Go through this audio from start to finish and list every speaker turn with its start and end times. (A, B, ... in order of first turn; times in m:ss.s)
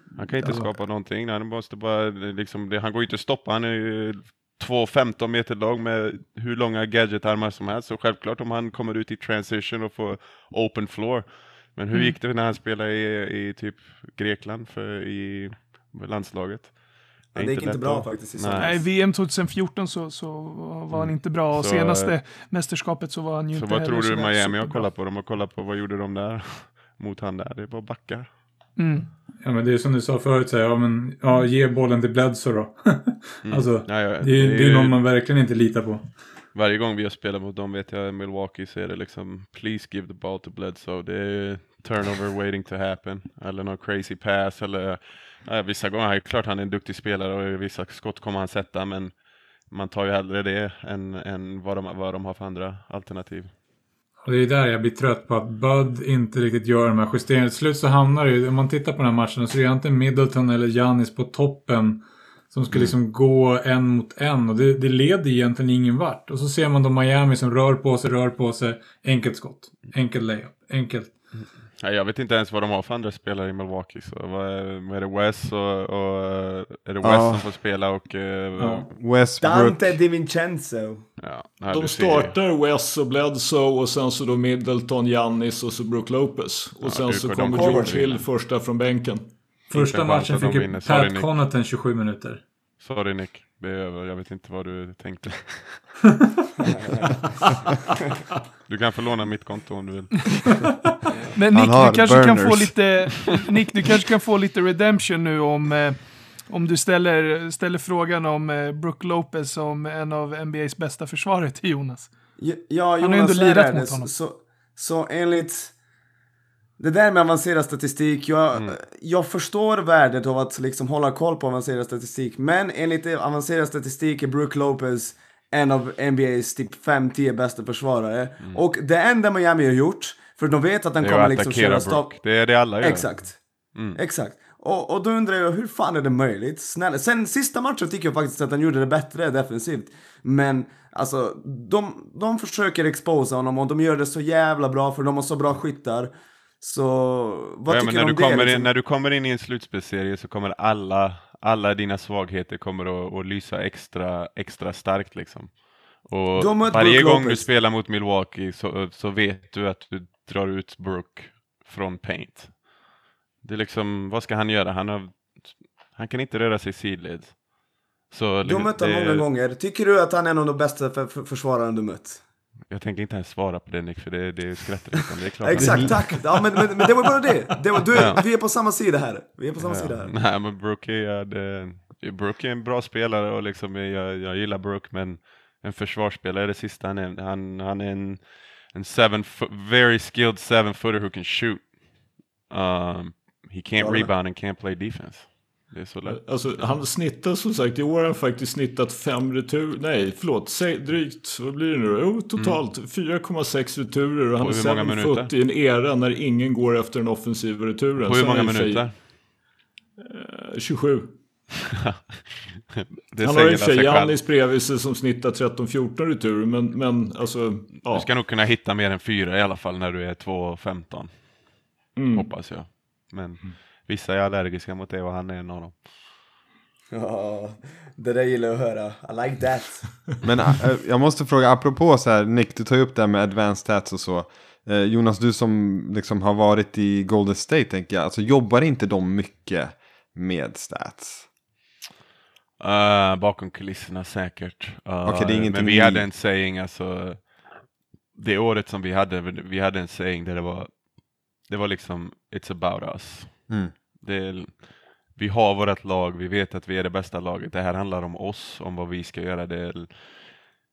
0:00.2-0:18.8 A
0:00.4-0:00.7 B
0:17.3-0:18.9 C
0:18.6-0:24.9 D
0:20.9-0:22.2 A
0:23.5-0:28.3 A
0:28.8-0:29.1 D
0:29.4-0:36.1 B
0:33.4-0:35.0 A
0:36.5-0:53.5 A
0:54.2-1:11.1 B
1:11.4-1:18.9 A
1:17.0-1:17.5 E
1:18.6-1:18.9 B
1:18.9-1:20.0 E
1:19.4-1:21.1 C
1:21.2-1:22.4 A
1:21.7-1:29.3 F
1:26.8-1:28.3 A
1:27.5-1:28.1 C
1:29.7-1:31.3 A
1:29.7-1:32.4 B
1:32.8-1:35.9 A
1:36.8-1:37.0 C
1:38.7-1:40.6 A
1:41.3-1:52.1 D
1:41.5-1:43.0 E
1:52.4-1:55.8 C
1:53.0-1:54.1 D
1:56.8-2:28.7 C
2:11.0-2:13.2 A
2:27.7-2:42.7 A
2:36.4-2:37.5 C
2:43.4-2:47.4 A
2:48.1-2:49.3 A
2:48.4-2:52.2 C
2:52.7-2:56.3 A
2:55.4-3:00.1 C
2:55.6-2:56.6 F
2:57.9-2:58.2 A
2:59.6-3:11.8 A
3:12.5-3:16.8 A
3:13.8-3:14.1 C
3:16.1-3:29.1 F
3:22.4-3:22.6 A
3:24.4-3:25.3 A
3:28.0-3:29.0 A
3:30.0-3:31.2 F
3:31.9-3:34.2 A
3:33.2-3:38.1 F
3:37.9-3:41.4 A
3:42.0-3:42.4 F
3:42.1-3:45.8 A
3:46.9-3:50.2 C
3:50.2-4:01.3 E
4:02.6-4:07.4 A
4:05.0-4:06.1 E
4:08.1-4:20.4 A
4:13.5-4:13.7 E